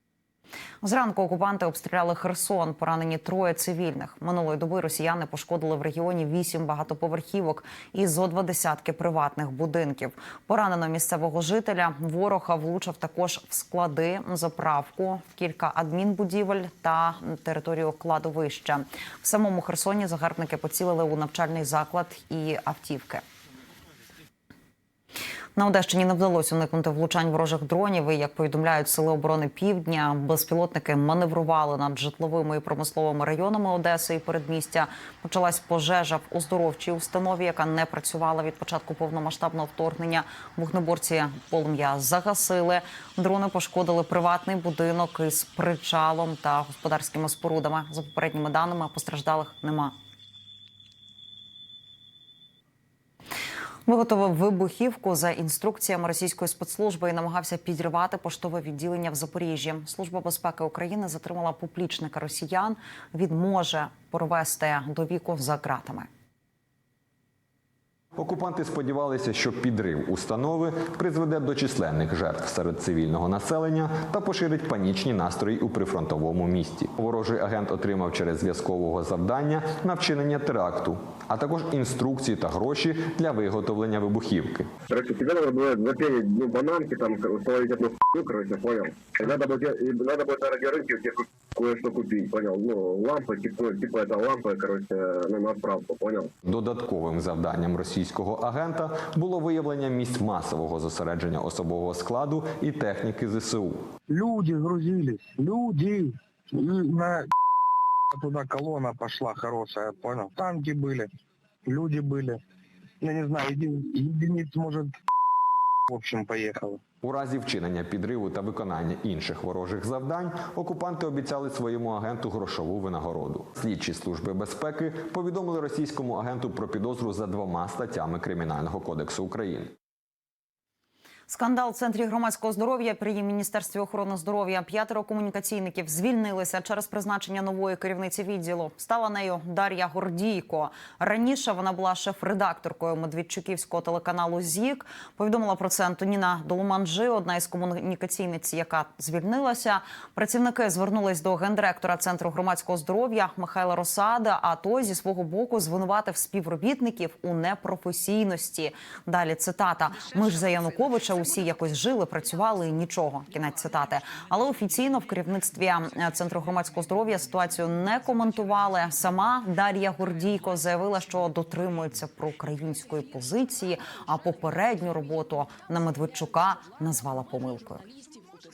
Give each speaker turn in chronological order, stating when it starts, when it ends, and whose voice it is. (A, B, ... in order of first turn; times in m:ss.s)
0:00.8-0:23.2 A
0:25.6-0:49.9 A
0:53.8-1:06.1 A
1:08.2-1:24.7 B
1:24.9-1:36.3 C
1:36.4-1:43.8 B
1:44.1-1:47.3 D
1:48.1-1:51.1 D
1:51.6-1:52.4 D
1:53.0-1:54.9 D
1:55.9-1:56.8 D
1:57.0-2:09.7 B
2:11.3-2:57.8 A